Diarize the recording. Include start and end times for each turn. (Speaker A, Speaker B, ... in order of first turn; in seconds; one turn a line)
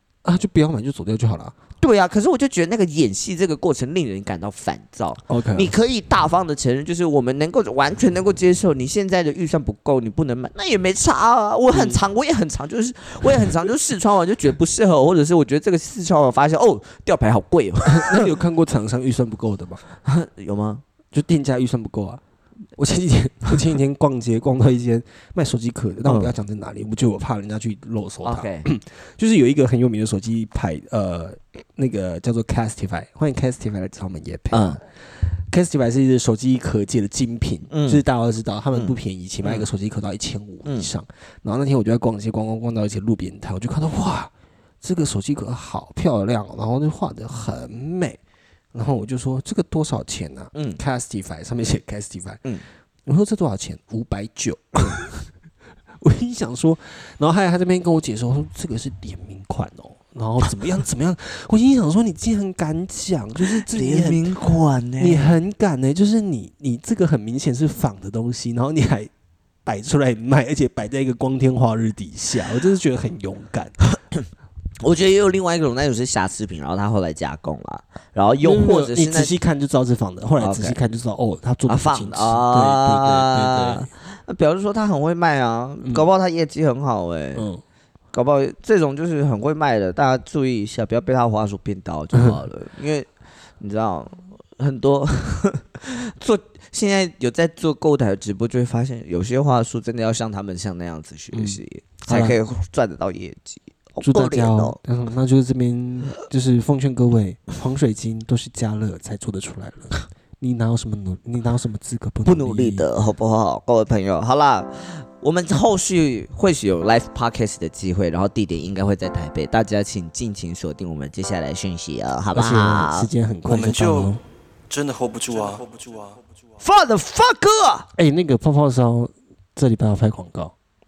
Speaker A: 0.2-1.5
Speaker B: 1.8-18.3
Speaker A: 5.3-5.7
Speaker A: 11.7-12.0
Speaker A: 17.9-19.8
Speaker B: 20.0-20.8
Speaker A: 21.1-22.2
Speaker A: 22.7-34.8
Speaker B: 26.0-26.3
Speaker B: 28.2-28.7
Speaker B: 34.5-34.8
Speaker A: 35.5-44.3
Speaker B: 37.7-38.0
Speaker B: 38.7-39.7
Speaker A: 44.8-48.2
Speaker A: 48.7-52.4
Speaker B: 50.5-50.8
Speaker A: 53.0-55.3
Speaker A: 56.0-64.3
Speaker B: 63.7-65.3
Speaker A: 65.0-69.1
Speaker A: 69.6-73.7
Speaker B: 74.8-79.3
Speaker A: 78.4-83.9
Speaker B: 80.4-80.8
Speaker B: 81.7-87.4
Speaker A: 87.3-87.6
Speaker B: 88.1-93.1
Speaker B: 93.6-104.8
Speaker A: 101.3-102.3
Speaker A: 104.0-112.8
Speaker B: 112.2-123.1
Speaker A: 122.3-124.2
Speaker C: 123.4-124.2
Speaker C: 124.7-126.2
Speaker B: 126.6-127.9
Speaker A: 128.0-130.5